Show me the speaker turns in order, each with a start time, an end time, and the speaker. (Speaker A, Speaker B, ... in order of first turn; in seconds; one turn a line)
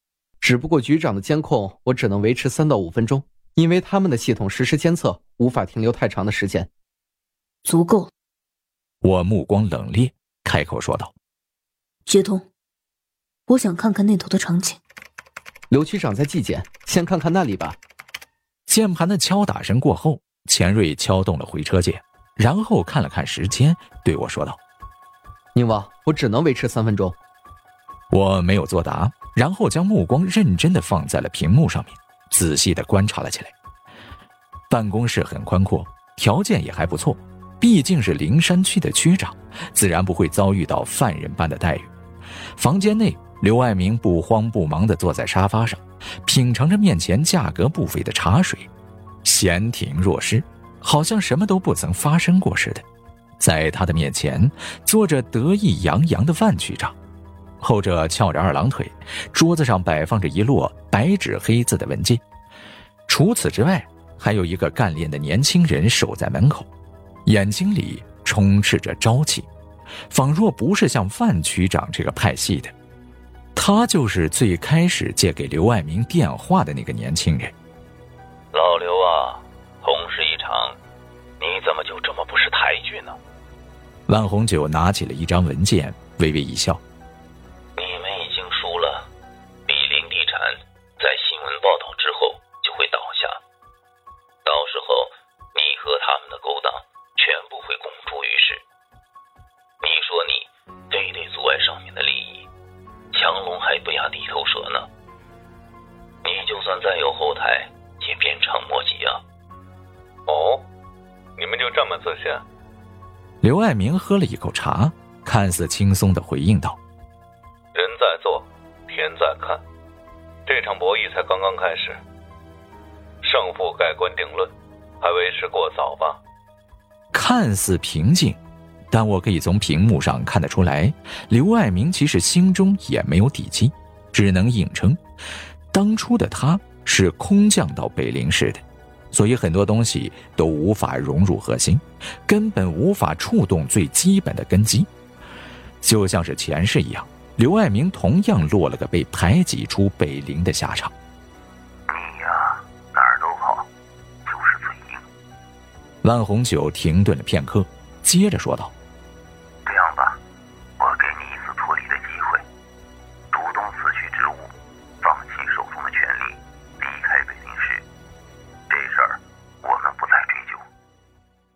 Speaker A: 0.4-6.7
Speaker B: 7.6-8.1
Speaker C: 9.0-11.1
Speaker B: 12.1-12.5
Speaker B: 13.5-14.8
Speaker A: 15.7-17.8
Speaker C: 18.7-24.6
Speaker A: 25.5-27.2
Speaker C: 28.1-33.5
Speaker C: 34.7-41.9
Speaker C: 42.6-48.7
Speaker C: 49.2-52.8
Speaker C: 53.4-57.0
Speaker C: 57.6-62.2
Speaker C: 63.1-66.7
Speaker C: 67.2-69.5
Speaker C: 70.1-72.7
Speaker C: 73.5-77.5
Speaker D: 78.5-80.8
Speaker D: 81.4-83.2
Speaker C: 84.1-86.8
Speaker D: 87.8-89.1
Speaker D: 89.7-93.4
Speaker D: 94.4-98.6
Speaker D: 99.8-102.5
Speaker D: 103.1-104.9
Speaker D: 106.2-109.2
Speaker E: 110.3-110.6
Speaker E: 111.4-112.4
Speaker C: 113.4-116.8
Speaker E: 117.7-119.6
Speaker E: 120.5-122.0
Speaker E: 123.2-126.2
Speaker C: 127.1-128.4
Speaker C: 128.9-135.0
Speaker C: 135.7-144.9
Speaker C: 145.8-150.9
Speaker D: 151.9-153.7
Speaker D: 154.2-155.0
Speaker C: 156.0-158.7
Speaker D: 159.6-160.2
Speaker D: 160.8-162.4
Speaker D: 163.3-167.8
Speaker D: 168.7-170.6